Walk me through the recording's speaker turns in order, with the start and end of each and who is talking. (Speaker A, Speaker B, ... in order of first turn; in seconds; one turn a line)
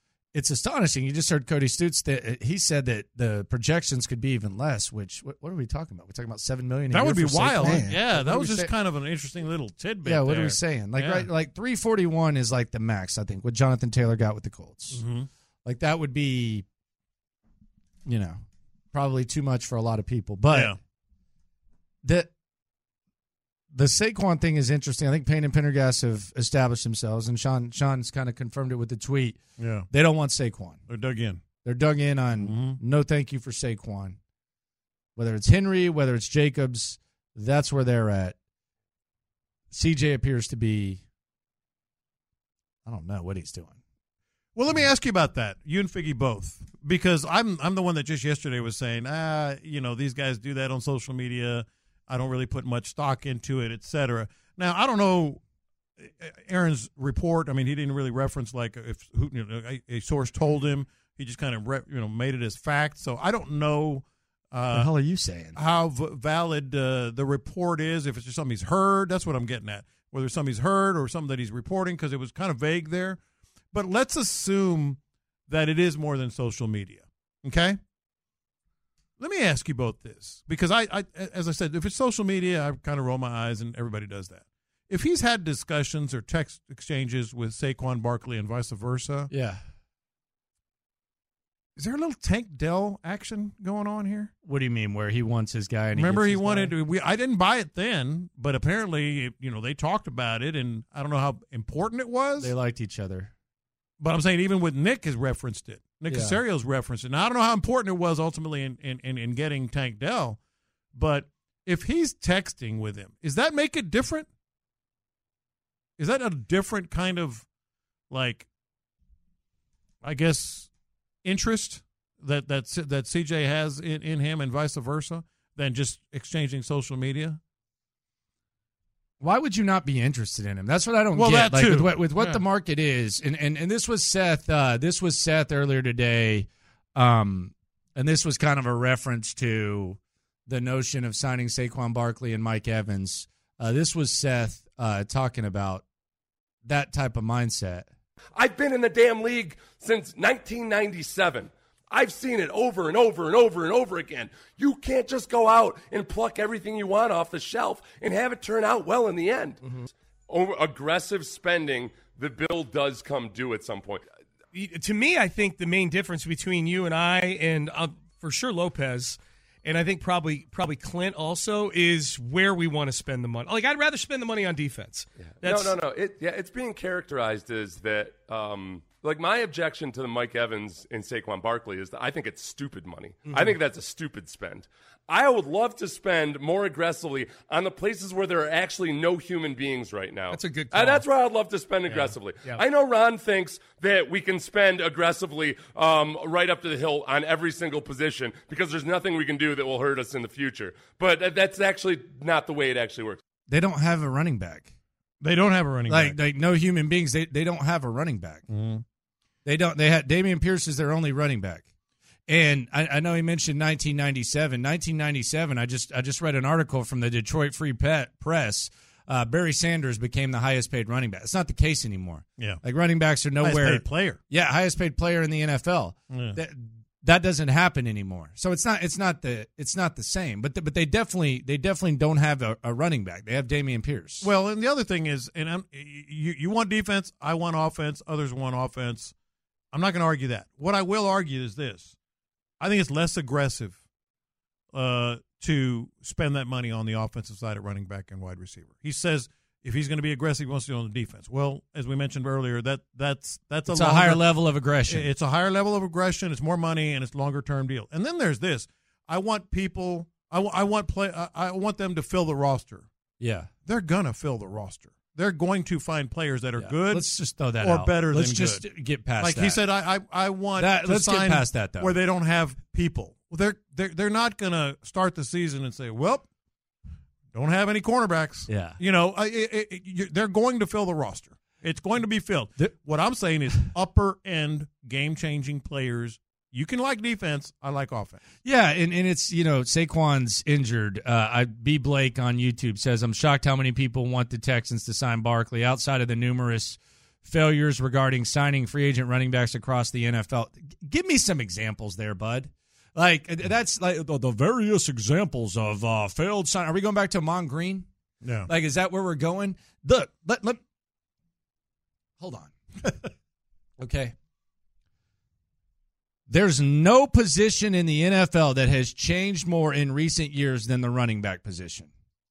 Speaker A: 0.3-8.7
Speaker B: 6.9-11.3
Speaker A: 10.0-15.0
Speaker B: 14.9-15.3
Speaker A: 15.6-16.6
Speaker A: 18.1-18.4
Speaker A: 18.9-20.8
Speaker A: 22.0-22.3
Speaker A: 23.7-29.4
Speaker B: 29.6-29.9
Speaker A: 29.9-30.8
Speaker B: 30.9-31.4
Speaker A: 31.6-34.2
Speaker B: 32.4-32.8
Speaker A: 35.1-38.3
Speaker A: 39.7-41.0
Speaker A: 42.8-43.8
Speaker B: 44.5-55.4
Speaker B: 56.1-64.9
Speaker A: 64.7-65.6
Speaker B: 65.5-73.2
Speaker B: 73.7-77.8
Speaker B: 79.2-89.3
Speaker A: 89.3-89.6
Speaker B: 91.8-94.3
Speaker A: 94.4-96.8
Speaker B: 95.9-102.5
Speaker A: 102.4-103.3
Speaker B: 104.0-110.4
Speaker A: 106.1-106.4
Speaker B: 110.9-114.3
Speaker B: 116.0-117.5
Speaker B: 118.1-118.5
Speaker B: 120.0-120.7
Speaker B: 121.2-127.4
Speaker A: 129.2-145.8
Speaker B: 131.1-132.4
Speaker A: 146.6-147.9
Speaker C: 148.3-159.6
Speaker C: 160.3-164.0
Speaker D: 164.5-175.7
Speaker C: 175.4-203.2
Speaker D: 183.3-183.5
Speaker D: 190.3-191.1
Speaker A: 203.5-204.7
Speaker B: 205.2-206.2
Speaker A: 205.9-208.4
Speaker B: 208.5-208.8
Speaker A: 209.4-211.7
Speaker A: 212.3-234.3
Speaker B: 223.4-224.2
Speaker B: 226.1-226.4
Speaker B: 234.2-239.1
Speaker B: 239.7-241.9
Speaker B: 242.6-243.8
Speaker B: 244.7-254.2
Speaker A: 253.7-255.1
Speaker B: 254.9-262.9
Speaker A: 263.2-263.5
Speaker B: 263.6-267.0
Speaker A: 266.6-269.6
Speaker B: 267.6-268.6
Speaker B: 269.2-276.2
Speaker A: 270.5-272.0
Speaker B: 277.3-288.2
Speaker A: 278.5-278.8
Speaker A: 288.4-307.9
Speaker B: 308.2-308.5
Speaker A: 308.5-310.6
Speaker A: 312.2-313.1
Speaker A: 313.8-314.1
Speaker A: 316.3-321.9